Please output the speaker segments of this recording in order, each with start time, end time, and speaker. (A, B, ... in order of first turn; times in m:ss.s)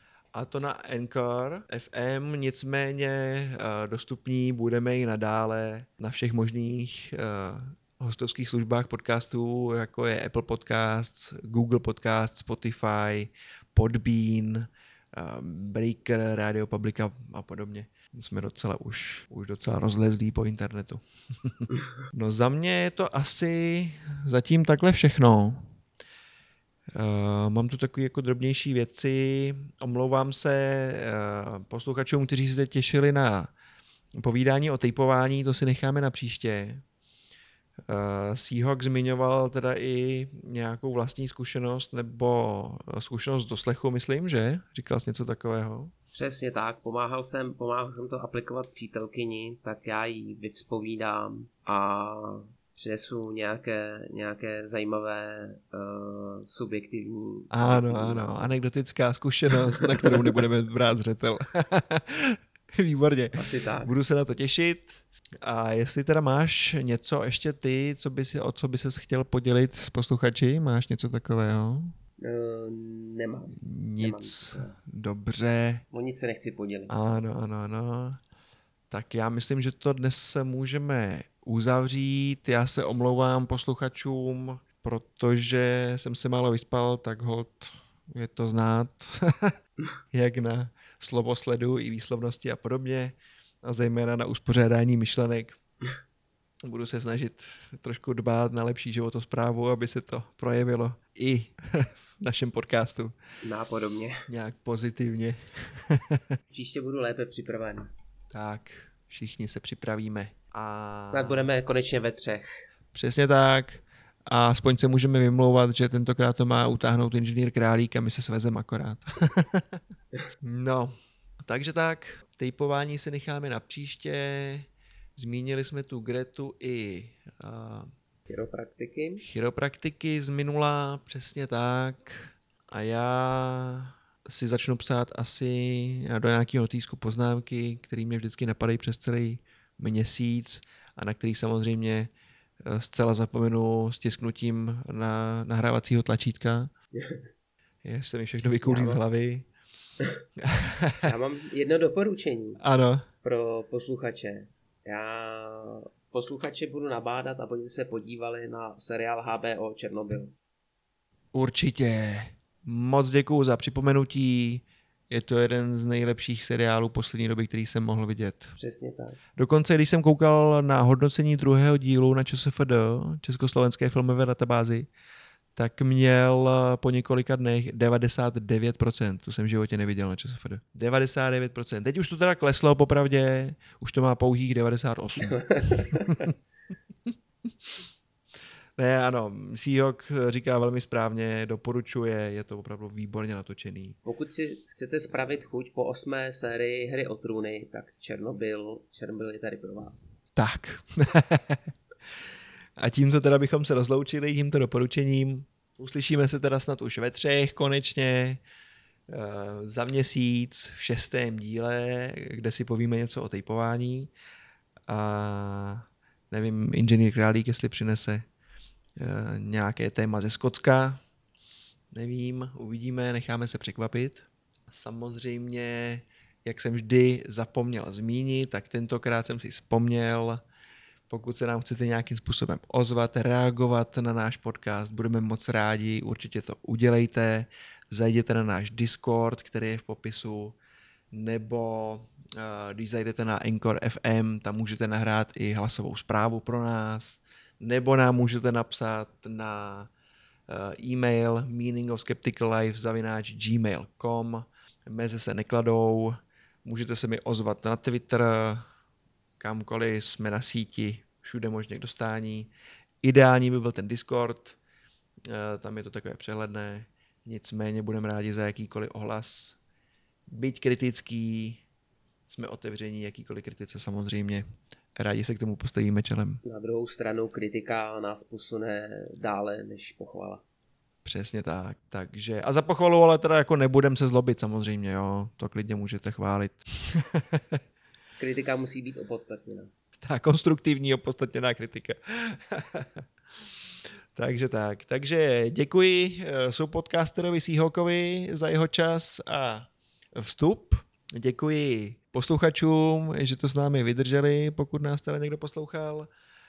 0:00.3-0:25.7 A
0:27.0-0:33.5 A
0:34.2-0:36.8 A
0:37.9-0:45.9 A
0:46.1-0:58.5 B
0:57.5-1:11.9 A
0:59.6-1:00.4 B
1:03.4-1:03.9 B
1:12.2-1:14.8 B
1:13.6-1:15.8 A
1:15.9-1:16.9 B
1:16.9-1:18.2 A
1:18.9-1:29.5 A
1:30.1-1:35.6 A
1:36.6-1:43.1 A
1:43.4-1:44.3 B
1:44.3-1:46.2 A
1:46.5-1:47.9 B
1:48.3-1:51.5 A
1:51.1-1:52.5 B
1:52.9-1:59.8 A
2:00.4-2:07.9 A
2:08.3-2:09.2 B
2:09.2-2:22.1 A
2:22.6-2:26.7 A
2:26.9-2:27.3 B
2:27.8-2:29.5 A
2:28.6-2:29.0 B
2:30.4-2:31.1 A
2:31.0-2:32.6 B
2:32.6-2:33.1 A
2:33.2-2:40.3 B
2:41.3-2:48.6 A
2:48.6-2:49.2 B
2:49.4-2:54.9 A
2:55.6-3:06.3 A
3:05.2-3:06.3 B
3:08.8-3:14.0 A
3:14.0-3:20.1 B
3:20.4-3:21.6 A
3:22.8-3:28.4 A
3:29.1-3:34.1 A
3:34.9-3:38.2 A
3:39.0-3:41.0 A
3:41.9-3:50.4 A
3:51.1-4:00.6 A
4:01.1-4:09.9 A
4:10.5-4:18.6 A
4:19.4-4:22.5 A
4:23.0-4:24.6 A
4:25.3-4:29.6 A
4:30.3-4:31.6 A
4:32.3-4:34.4 A
4:35.0-4:36.4 A
4:36.4-4:40.4 B
4:41.0-4:47.6 A
4:48.2-4:49.7 B
4:50.0-4:53.0 A
4:54.1-5:06.1 A